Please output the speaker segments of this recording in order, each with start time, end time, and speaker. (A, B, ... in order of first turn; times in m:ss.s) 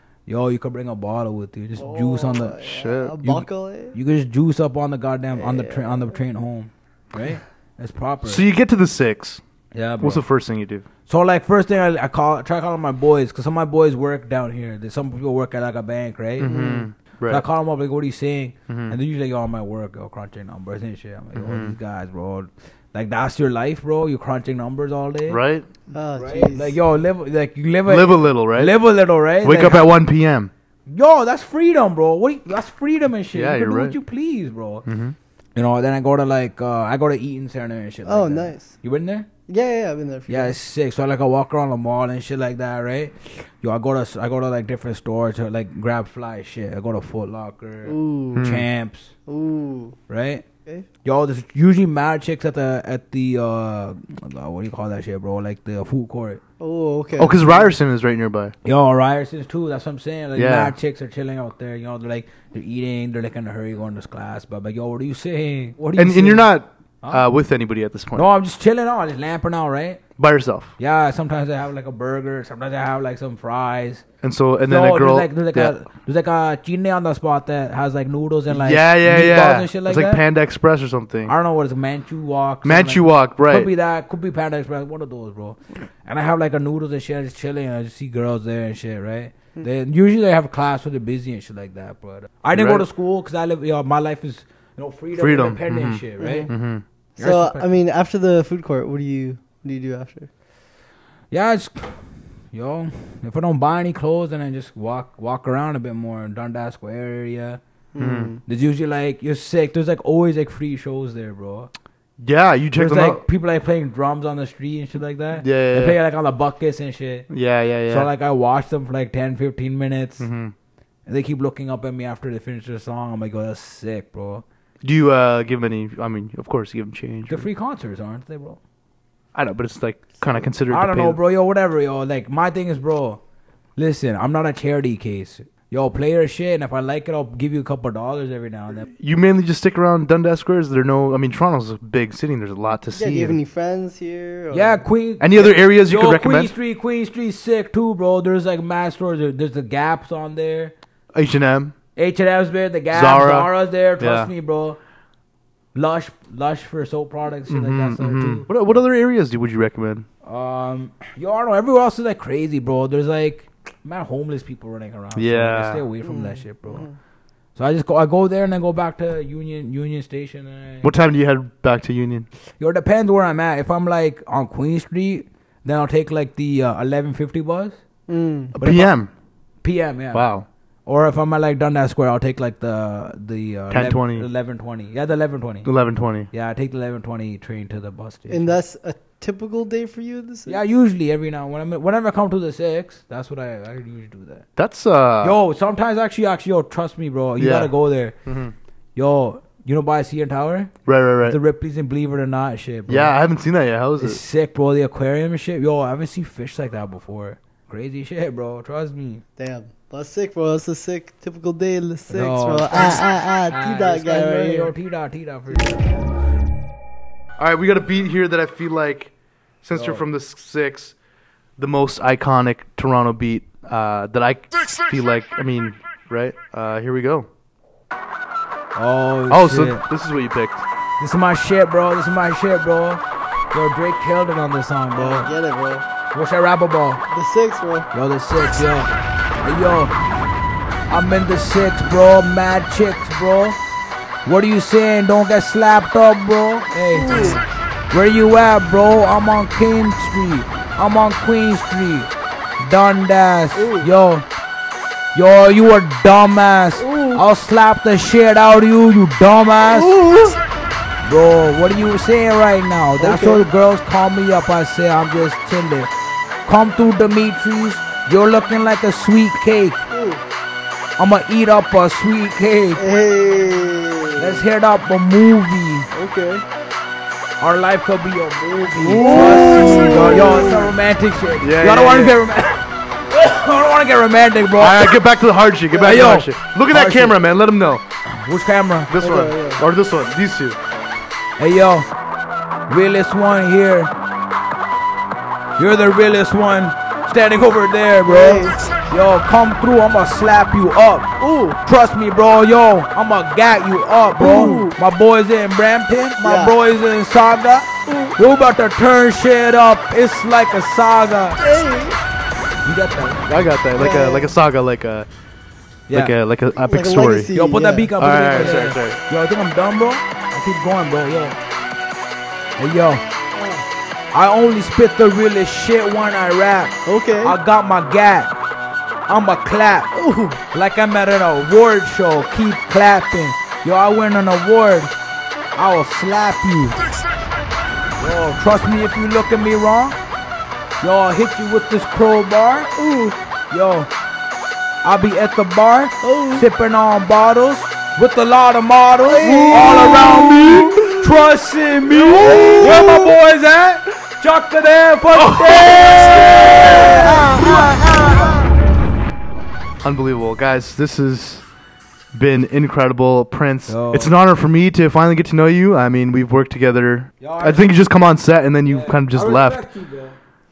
0:00.3-0:02.6 A
0:01.8-0:04.0 B
0:02.6-0:03.2 C
0:03.2-0:08.4 A
0:05.4-0:06.0 B
0:08.2-0:09.4 C
0:09.7-0:10.2 A
0:10.0-0:10.9 C
0:11.1-0:16.6 A
0:16.4-0:17.4 C
0:16.4-0:16.9 B
0:17.3-0:25.4 A
0:18.7-0:19.0 C
0:21.4-0:21.8 C
0:25.3-0:25.7 C
0:25.9-0:26.8 B
0:26.2-0:29.9 A
0:27.9-0:28.8 C
0:29.4-0:30.5 C
0:30.9-0:34.8 A
0:33.3-0:34.0 C
0:34.9-0:35.2 C
0:35.6-0:39.3 A
0:38.1-0:38.7 B
0:39.5-0:40.5 B
0:40.3-0:49.1 A
0:47.8-0:48.5 B
0:48.4-0:48.7 C
0:49.3-0:50.0 B
0:50.1-0:50.4 A
0:51.0-0:56.4 A
0:56.6-0:57.7 B
0:57.2-0:58.5 C
0:58.6-1:06.5 A
1:00.4-1:00.8 C
1:06.0-1:08.3 C
1:08.1-1:10.0 A
1:10.2-1:10.7 C
1:10.8-1:14.0 A
1:14.2-1:15.7 C
1:14.7-1:20.2 A
1:18.5-1:21.3 C
1:21.3-1:36.5 A
1:22.6-1:23.7 C
1:32.5-1:32.9 C
1:35.2-1:36.8 C
1:36.2-1:36.5 B
1:37.2-1:37.7 A
1:37.2-1:40.3 B
1:41.3-1:47.6 A
1:47.9-1:48.4 B
1:48.0-1:48.3 C
1:48.5-1:51.7 A
1:52.2-1:53.2 C
1:52.8-1:57.3 A
1:55.4-1:56.0 C
1:57.3-1:58.1 C
1:57.9-2:00.3 A
2:00.2-2:00.5 C
2:01.1-2:04.4 A
2:04.8-2:07.5 C
2:07.3-2:08.6 A
2:09.4-2:11.2 C
2:10.7-2:13.2 A
2:13.8-2:18.8 A
2:18.9-2:23.4 C
2:22.9-2:24.8 B
2:24.5-2:30.7 A
2:25.2-2:26.5 C
2:31.1-2:31.7 C
2:32.0-2:34.8 A
2:32.9-2:34.3 C
2:35.8-2:38.5 A
2:37.5-2:40.1 C
2:40.2-2:46.9 A
2:45.2-2:45.9 C
2:46.0-2:46.9 B
2:47.6-2:50.9 A
2:50.8-2:52.3 C
2:52.6-2:57.8 A
2:58.1-2:58.5 B
2:58.6-2:59.1 C
2:58.6-2:58.9 A
2:59.6-3:00.3 A
3:00.1-3:00.5 C
3:00.9-3:05.7 A
3:03.7-3:04.3 C
3:05.6-3:06.3 C
3:06.3-3:08.6 A
3:08.3-3:10.6 B
3:10.5-3:14.5 A
3:14.6-3:15.4 C
3:15.2-3:18.2 A
3:17.4-3:17.7 C
3:18.3-3:18.5 C
3:19.0-3:23.2 A
3:20.9-3:21.4 C
3:22.9-3:24.2 C
3:24.0-3:29.2 A
3:29.4-3:34.7 B
3:32.1-3:36.3 A
3:37.4-3:39.1 C
3:39.6-3:41.0 C
3:39.8-3:40.0 A
3:41.6-3:47.3 C
3:48.8-3:49.8 A
3:49.3-3:50.6 C
3:51.0-3:53.0 A
3:53.5-3:55.3 A
3:55.0-3:55.8 B
3:56.1-3:57.0 A
3:57.1-3:57.9 B
3:57.9-3:58.9 A
3:59.4-3:59.9 A
4:00.9-4:03.6 A
4:04.2-4:07.4 A
4:06.9-4:07.4 B
4:07.1-4:07.4 C
4:07.9-4:14.2 A
4:13.6-4:13.9 B
4:15.1-4:20.0 A
4:16.8-4:17.2 B
4:19.7-4:20.4 B
4:21.0-4:25.9 A
4:23.0-4:23.4 B
4:26.5-4:29.9 A
4:29.9-4:30.2 B
4:31.0-4:32.8 A
4:32.8-4:34.4 B
4:34.2-4:35.9 A
4:35.9-4:36.4 B
4:37.4-4:45.0 A
4:38.8-4:40.7 B
4:38.8-4:40.2 C
4:41.4-4:42.2 C
4:44.6-4:47.8 C
4:45.7-4:47.2 A
4:48.1-4:48.9 A
4:48.9-4:50.6 C
4:49.0-4:49.6 B
4:51.4-4:51.9 A
4:52.7-4:53.9 A
4:55.6-5:01.1 A
4:58.0-4:58.8 B
5:01.2-5:01.6 B
5:01.6-5:11.4 A
5:04.2-5:04.8 B
5:06.2-5:06.6 B
5:07.9-5:08.2 B
5:11.4-5:12.0 B
5:12.6-5:13.5 A
5:13.3-5:15.1 C
5:13.8-5:14.3 B
5:15.9-5:17.4 C
5:16.6-5:18.6 B
5:17.3-5:21.4 A
5:18.0-5:19.0 C
5:22.6-5:23.0 A
5:23.3-5:23.7 B
5:24.1-5:28.3 A
5:26.9-5:27.4 B
5:29.1-5:29.9 A
5:29.9-5:30.4 B
5:30.4-5:34.9 A
5:35.6-5:36.8 A
5:38.0-5:40.0 A
5:40.8-5:42.7 A
5:42.8-5:43.2 B
5:43.5-5:43.9 A
5:44.8-5:58.5 A
5:46.0-5:46.5 B
5:49.0-5:51.0 B
5:50.5-5:50.8 C
5:51.9-5:53.1 B
5:52.0-5:53.1 C
5:55.2-5:57.2 C
5:56.2-5:58.5 B
5:59.8-6:01.4 C
6:02.1-6:09.6 C
6:03.7-6:04.1 A
6:07.2-6:07.7 A
6:08.6-6:10.2 A